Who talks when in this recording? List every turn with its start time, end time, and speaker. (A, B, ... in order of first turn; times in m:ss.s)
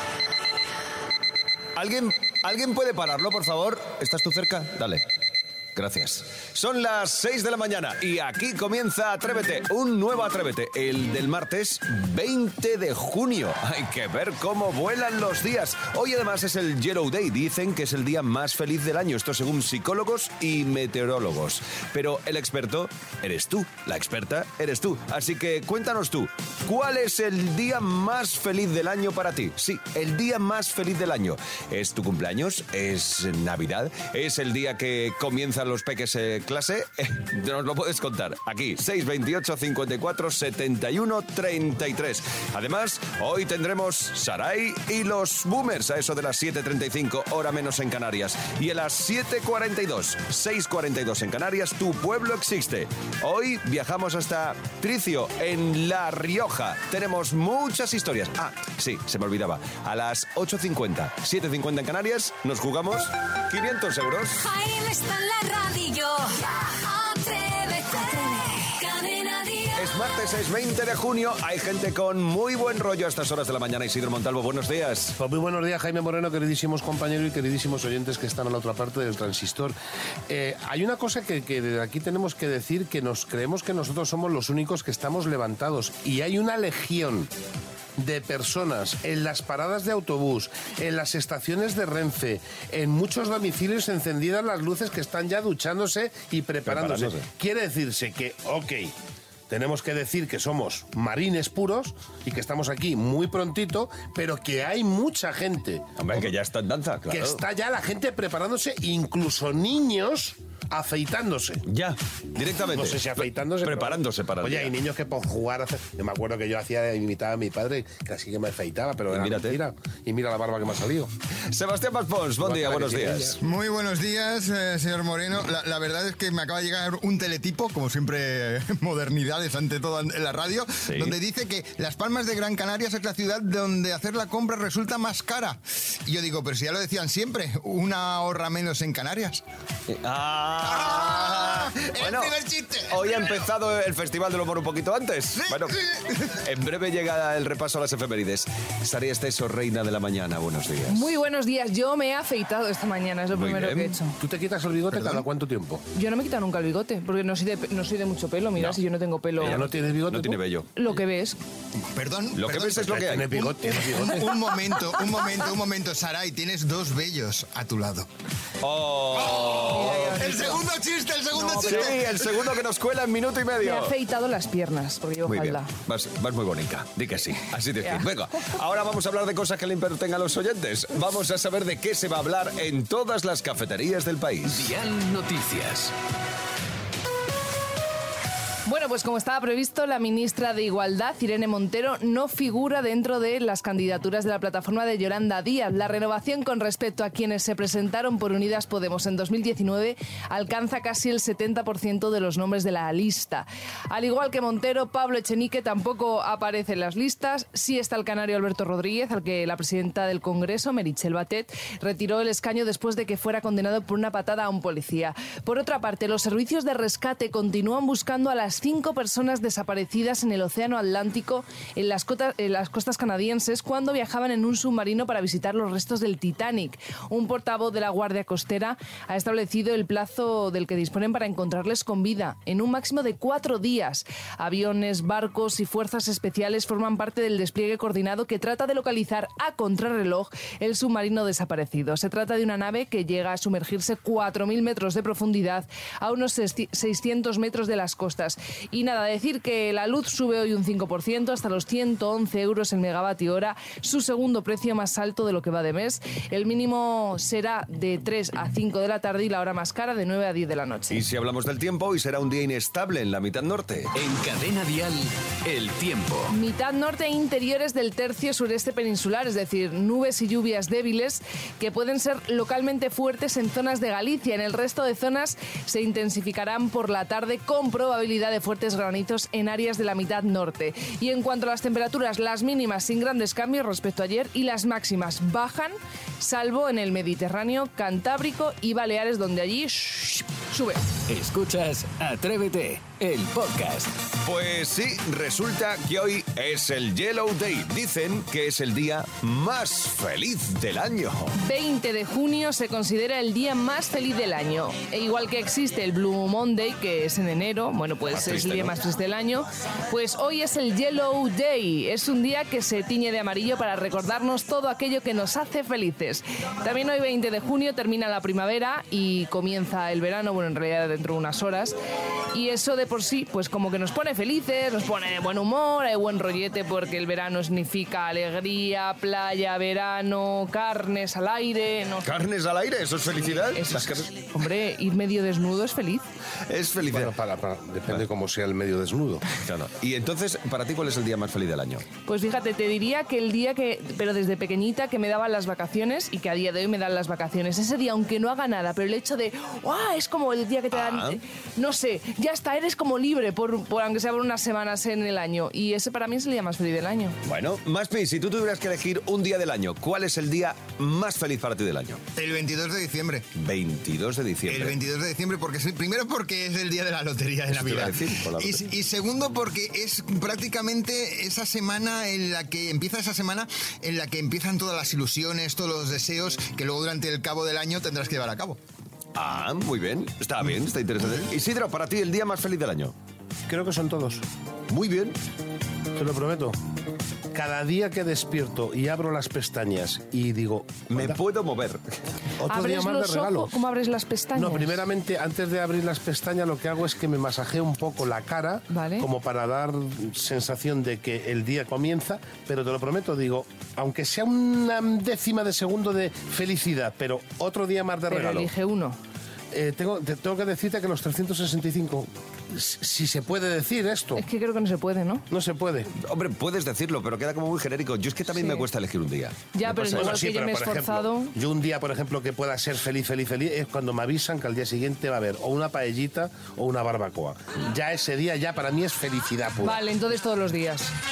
0:01.7-0:05.0 A
0:05.7-1:04.5 A
1:04.4-1:09.9 B
1:09.7-1:15.1 A
1:15.2-1:19.8 C
1:20.3-1:27.3 C
1:28.0-1:38.9 C
1:36.7-1:37.2 A
1:39.5-1:46.3 C
1:46.0-1:47.4 A
1:47.1-1:51.6 C
1:51.6-1:54.7 A
1:52.6-2:01.1 C
1:59.1-1:59.6 A
2:01.5-2:03.4 A
2:02.4-2:03.4 C
2:03.4-2:19.4 D
2:10.8-2:11.2 A
2:19.9-2:22.3 A
2:20.6-2:23.4 D
2:22.9-2:31.1 A
2:25.4-2:26.4 D
2:30.9-2:34.2 E
2:33.3-2:34.0 A
2:34.2-2:35.8 C
2:34.9-2:35.2 A
2:35.9-2:39.6 E
2:39.4-2:41.0 A
2:39.4-2:40.4 C
2:40.7-2:41.4 E
2:41.9-2:43.1 D
2:42.3-2:43.6 A
2:43.0-2:44.3 C
2:43.9-2:48.1 D
2:48.6-2:50.4 A
2:49.2-2:52.0 D
2:49.6-2:50.7 E
2:51.3-2:52.0 E
2:51.6-2:54.0 A
2:53.6-2:55.7 E
2:55.2-3:04.7 A
2:57.8-2:58.1 E
3:04.4-3:05.9 F
3:08.6-4:21.0 E
4:20.9-4:23.9 A
4:23.9-4:26.3 F
4:26.3-4:50.8 E
4:51.1-4:54.0 F
4:54.2-5:01.3 A
5:01.4-5:21.7 E
5:08.1-5:08.8 A
5:22.3-5:32.1 E
5:32.0-5:34.1 A
5:33.2-5:36.0 E
5:36.5-5:37.1 A
5:36.8-5:39.2 C
5:39.3-5:41.8 A
5:42.0-5:57.2 E
5:50.7-5:51.2 A
5:57.2-6:02.0 A
6:02.2-6:03.3 D
6:03.3-6:04.8 A
6:04.5-6:18.6 D
6:07.5-6:08.7 A
6:19.1-6:22.9 A
6:23.5-6:24.2 C
6:24.7-6:25.2 A
6:25.9-6:26.6 C
6:27.3-6:31.2 C
6:30.9-6:31.8 A
6:32.4-6:33.6 C
6:32.5-6:34.8 E
6:34.3-6:48.5 C
6:38.7-6:39.1 E
6:48.1-6:49.0 E
6:49.5-6:54.2 C
6:54.2-6:55.2 E
6:55.3-6:55.9 C
6:56.0-7:00.2 A
6:58.3-6:58.7 E
6:59.5-7:01.3 E
6:59.9-7:09.8 C
7:09.6-7:10.9 E